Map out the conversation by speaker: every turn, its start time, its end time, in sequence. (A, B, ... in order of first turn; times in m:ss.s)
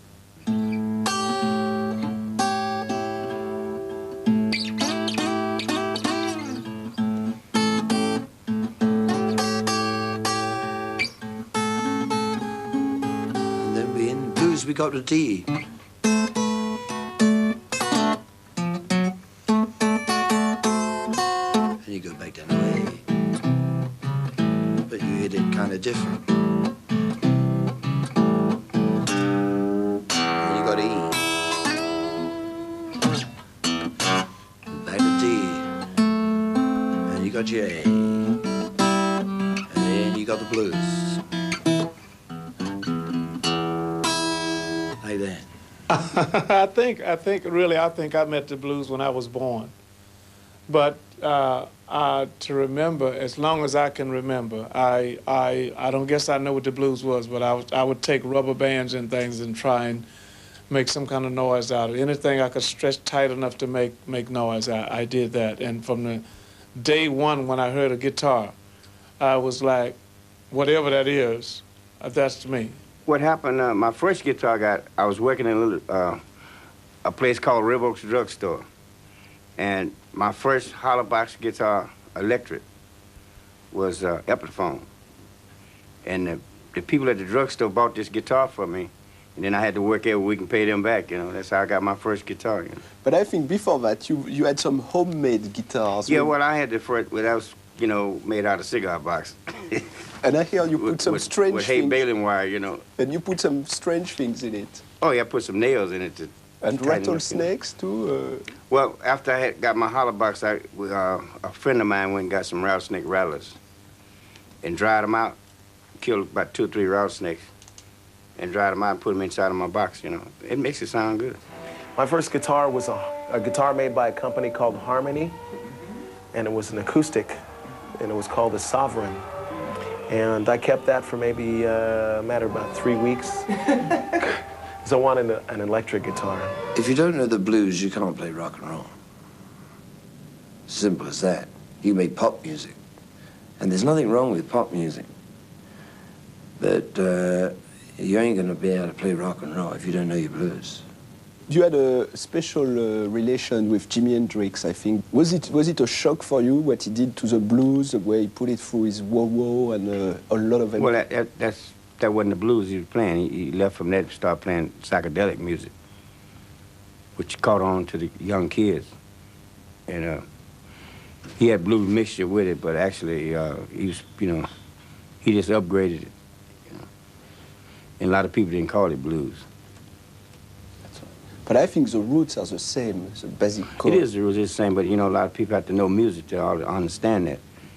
0:13.6-0:15.5 A
0:21.8-0:23.0 A
0:24.9-0:26.2 A
0:30.4-0:31.2 A
0:34.7-0:35.7 A
0:37.1-0:38.3 A
0:39.7-0:41.2 A
0:45.0-0:45.5 A
0:45.9-0:49.7 B
0:50.7-1:00.1 B
1:00.7-1:06.2 B
1:06.8-1:08.6 B
1:09.2-1:10.0 B
1:10.5-1:12.8 B
1:13.1-1:16.2 C
1:17.0-1:18.6 C
1:19.6-1:22.6 C
1:23.7-1:24.9 C
1:26.0-1:32.8 C
1:33.0-1:36.4 D
1:36.1-1:39.9 C
1:40.2-1:42.0 D
1:40.8-1:42.8 C
1:43.0-1:44.8 D
1:45.0-1:47.5 C
1:46.6-1:48.5 D
1:48.7-1:53.6 C
1:54.6-1:55.4 C
1:56.0-1:57.5 C
1:58.4-2:01.4 C
2:02.0-2:05.4 E
2:06.3-2:07.4 E
2:08.0-2:09.2 E
2:10.1-2:13.5 E
2:14.8-2:16.5 E
2:16.8-2:18.9 A
2:20.7-2:22.8 A
2:23.6-2:25.1 A
2:26.6-2:30.8 A
2:31.5-2:40.9 D
2:40.8-2:45.7 C
2:47.2-2:48.9 C
2:49.9-2:50.2 C
2:51.4-2:54.5 C
2:55.2-2:56.1 C
2:58.0-2:59.4 C
3:00.9-3:04.0 D
3:03.8-3:07.4 C